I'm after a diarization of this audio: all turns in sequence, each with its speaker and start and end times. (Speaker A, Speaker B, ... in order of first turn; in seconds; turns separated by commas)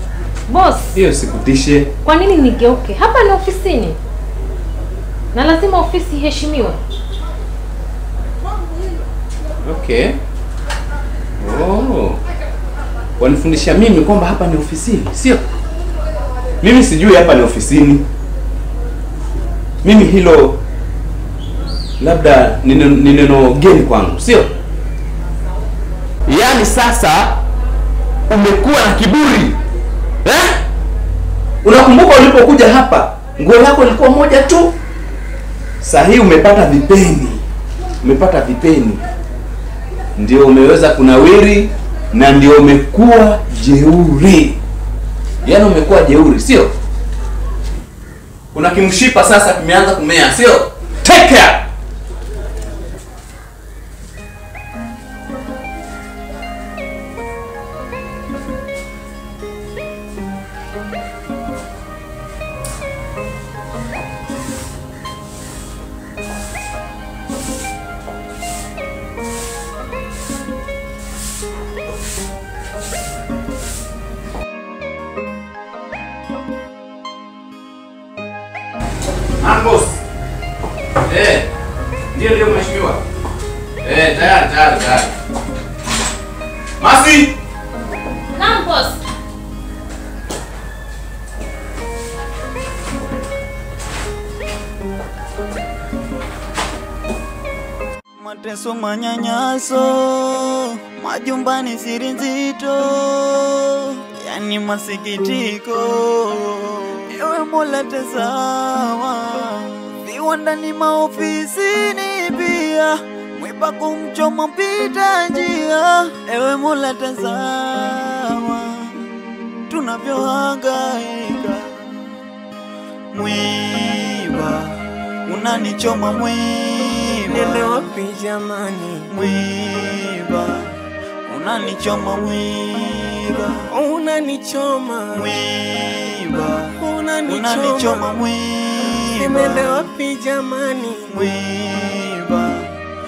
Speaker A: 0.5-0.9, Speaker B: 0.9-1.9, Speaker A: 2.0-4.0, Speaker A: 5.3-6.8, Speaker B: 9.6-10.2, Speaker B: 11.4-12.2, Speaker B: 13.2-15.4, Speaker B: 16.6-18.1, Speaker B: 19.8-20.6, Speaker B: 22.0-24.5, Speaker B: 26.3-27.4, Speaker B: 28.3-29.6, Speaker B: 30.2-30.6, Speaker B: 31.6-34.8, Speaker B: 35.8-37.4, Speaker B: 38.0-39.0, Speaker B: 40.2-44.6, Speaker B: 45.4-46.7, Speaker B: 48.5-51.6, Speaker B: 79.4-80.0, Speaker B: 81.1-81.5, Speaker B: 82.1-83.0, Speaker B: 83.8-85.1, Speaker B: 86.8-87.3, Speaker A: 88.4-88.9, Speaker C: 98.2-119.1, Speaker C: 119.7-122.1, Speaker C: 123.1-127.7, Speaker D: 127.3-129.1, Speaker C: 129.1-130.7, Speaker C: 131.3-133.6, Speaker D: 133.7-135.4, Speaker C: 135.1-139.9, Speaker D: 136.8-138.1, Speaker D: 139.2-141.1, Speaker C: 141.1-142.7